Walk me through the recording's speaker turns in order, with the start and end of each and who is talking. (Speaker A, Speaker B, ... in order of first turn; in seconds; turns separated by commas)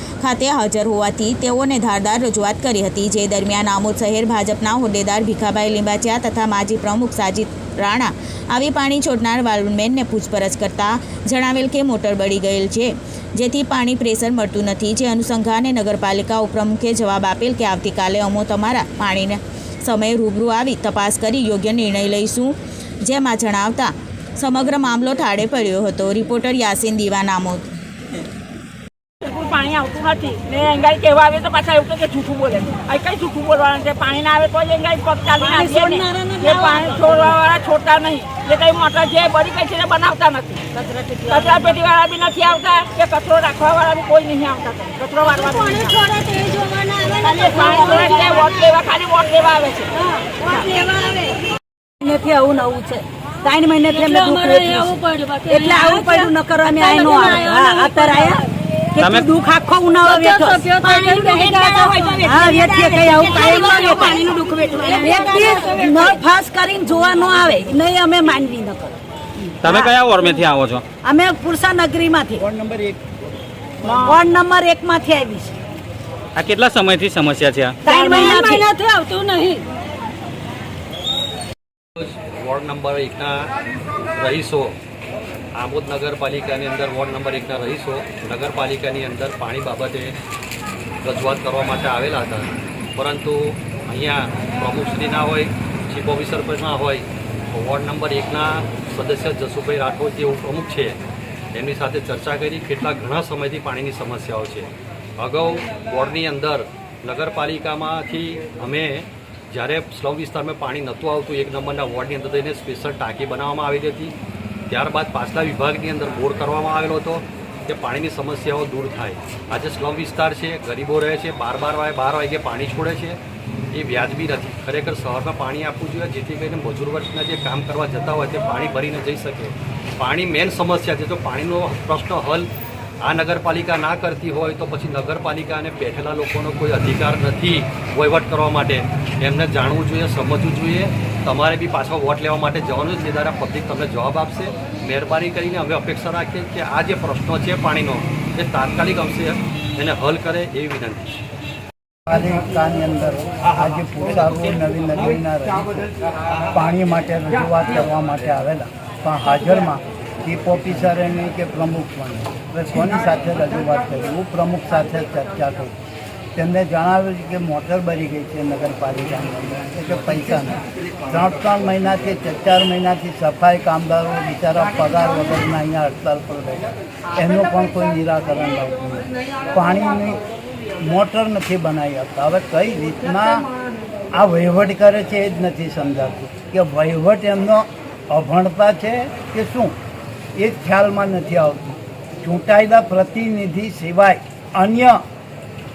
Speaker A: 0.2-27.7, Speaker B: 29.2-40.6, Speaker C: 35.4-36.5, Speaker C: 40.8-41.5, Speaker B: 41.3-49.9, Speaker C: 47.7-48.1, Speaker B: 50.4-51.3, Speaker C: 50.5-50.7, Speaker C: 52.0-64.2, Speaker B: 54.0-56.3, Speaker B: 56.8-58.2, Speaker B: 60.1-66.1, Speaker C: 64.8-70.3, Speaker D: 69.6-70.8, Speaker C: 71.0-72.4, Speaker E: 72.4-73.0, Speaker E: 73.8-74.2, Speaker C: 74.0-75.5, Speaker D: 76.3-77.8, Speaker C: 77.8-78.7, Speaker B: 77.9-79.6, Speaker F: 82.0-83.5, Speaker F: 84.1-84.8, Speaker F: 85.5-90.2, Speaker F: 91.0-101.0, Speaker F: 101.5-114.1, Speaker F: 114.7-123.2, Speaker F: 123.7-132.5, Speaker F: 133.0-151.2, Speaker E: 152.1-155.9, Speaker E: 156.5-165.7, Speaker E: 166.3-180.2, Speaker E: 180.8-183.4, Speaker E: 184.1-189.7, Speaker E: 190.3-195.0